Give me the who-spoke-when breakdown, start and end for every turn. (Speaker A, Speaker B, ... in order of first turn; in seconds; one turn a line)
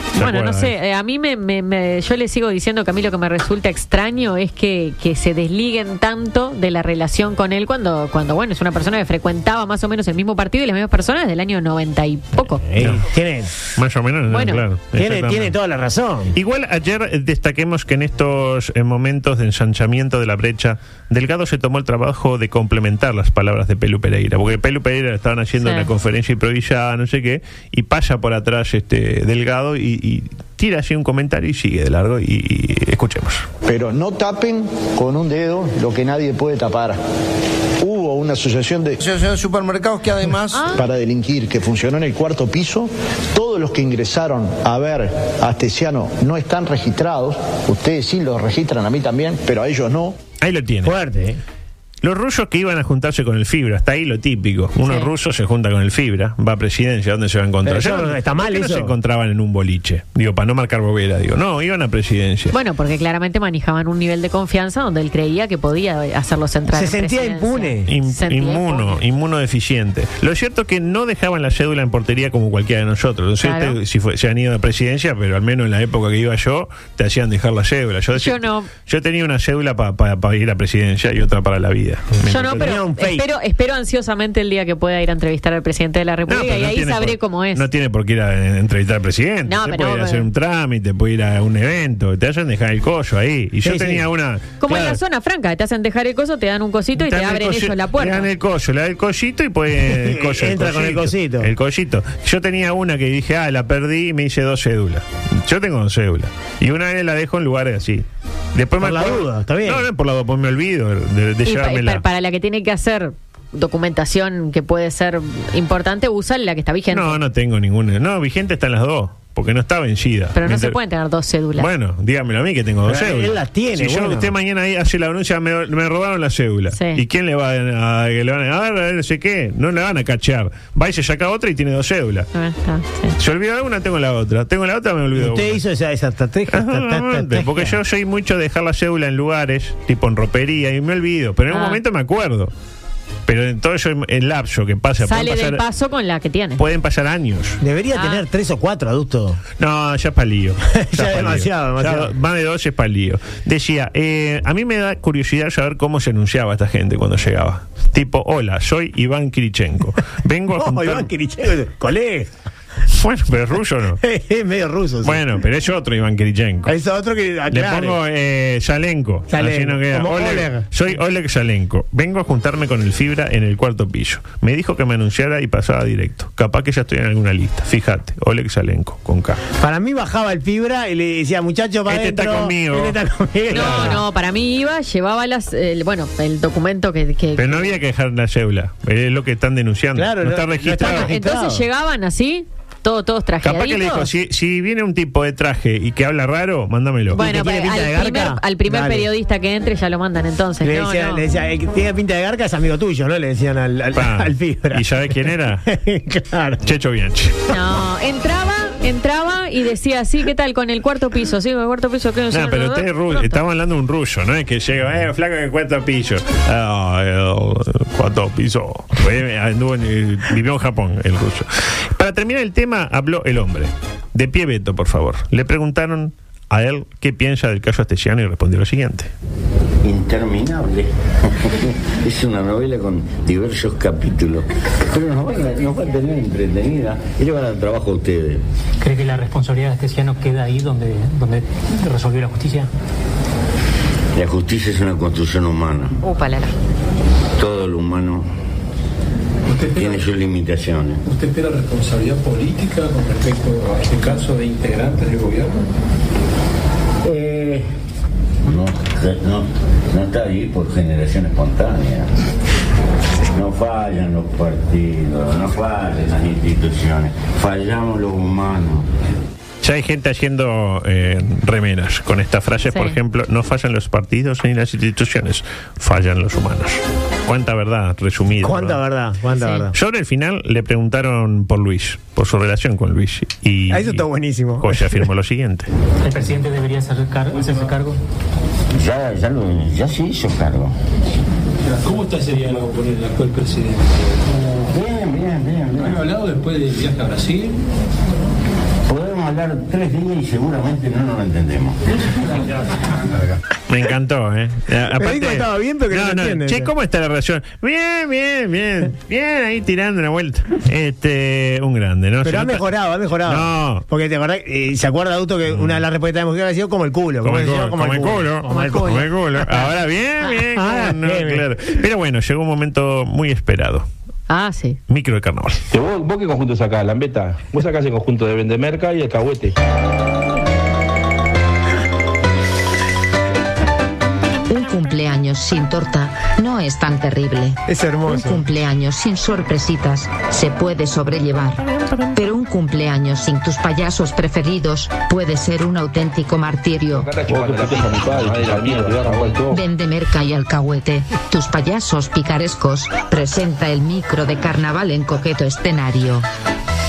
Speaker A: 0.2-0.7
Speaker B: 0.2-12.6
Speaker C: 12.6-13.5
Speaker A: 12.8-13.1
Speaker A: 13.8-15.6
Speaker B: 14.3-14.6
Speaker C: 15.0-16.4
Speaker A: 16.3-33.5
Speaker B: 25.6-25.9
Speaker D: 33.6-37.0
Speaker D: 37.8-39.0
Speaker B: 40.5-40.8
Speaker D: 40.6-50.2
Speaker A: 50.4-51.0
Speaker C: 50.8-51.4
Speaker A: 52.0-62.5
Speaker C: 57.6-59.0
Speaker B: 62.5-69.0
Speaker C: 66.7-67.9
Speaker A: 67.9-82.7
Speaker B: 73.4-73.8
Speaker B: 78.1-78.7
Speaker B: 82.2-87.7
Speaker C: 82.5-83.2
Speaker A: 86.3-95.0
Speaker B: 89.5-90.3
Speaker C: 93.6-94.0
Speaker B: 94.6-98.3
Speaker A: 97.0-112.0
Speaker C: 99.8-101.5
Speaker C: 108.8-109.8
Speaker B: 111.5-117.2
Speaker A: 116.9-120.8
Speaker B: 120.4-121.7
Speaker A: 121.6-132.3
Speaker C: 122.8-124.3
Speaker B: 126.7-127.0
Speaker B: 132.3-133.2
Speaker A: 133.2-135.6
Speaker C: 135.1-137.8
Speaker A: 136.5-142.5
Speaker B: 141.5-141.8
Speaker A: 143.3-145.6
Speaker B: 145.0-146.6
Speaker A: 146.6-147.6
Speaker C: 147.6-149.4
Speaker B: 147.9-148.2
Speaker A: 149.6-161.1
Speaker C: 150.8-152.1
Speaker C: 160.6-162.3
Speaker A: 162.9-164.0
Speaker C: 164.0-165.2
Speaker A: 165.0-166.7
Speaker C: 166.7-168.0
Speaker A: 167.5-179.4
Speaker C: 169.3-170.7
Speaker C: 179.6-184.0
Speaker A: 181.9-184.0
Speaker B: 183.5-187.8
Speaker A: 187.4-191.1
Speaker C: 190.0-191.7
Speaker B: 190.8-194.1
Speaker A: 193.4-197.2
Speaker C: 197.1-199.1
Speaker B: 197.1-201.2
Speaker C: 200.6-206.7
Speaker A: 203.9-205.7
Speaker A: 206.6-207.5
Speaker B: 207.5-213.4
Speaker A: 212.3-229.1
Speaker E: 229.8-238.4
Speaker F: 238.8-242.7
Speaker E: 244.1-246.0
Speaker E: 247.4-248.3
Speaker G: 249.5-250.1
Speaker E: 249.8-251.0
Speaker G: 251.1-255.7
Speaker E: 257.0-257.7
Speaker E: 258.4-262.1
Speaker E: 263.3-268.9
Speaker A: 269.6-278.8
Speaker B: 272.7-273.0
Speaker C: 278.4-279.8
Speaker A: 279.7-284.1
Speaker C: 283.7-285.1
Speaker A: 284.6-285.7
Speaker F: 286.0-288.0
Speaker E: 288.7-290.7
Speaker G: 291.6-293.9
Speaker E: 294.3-296.1
Speaker G: 295.8-297.6
Speaker E: 298.9-302.2
Speaker A: 303.7-312.7
Speaker C: 304.9-306.7
Speaker C: 312.2-319.7
Speaker A: 313.2-313.8
Speaker A: 315.5-315.8
Speaker A: 317.2-323.9
Speaker B: 318.5-319.1
Speaker C: 320.4-321.5
Speaker B: 324.3-324.8
Speaker A: 324.9-325.6
Speaker H: 325.7-329.6
Speaker I: 334.5-347.2
Speaker C: 337.7-338.4
Speaker H: 346.9-349.6
Speaker I: 349.5-356.3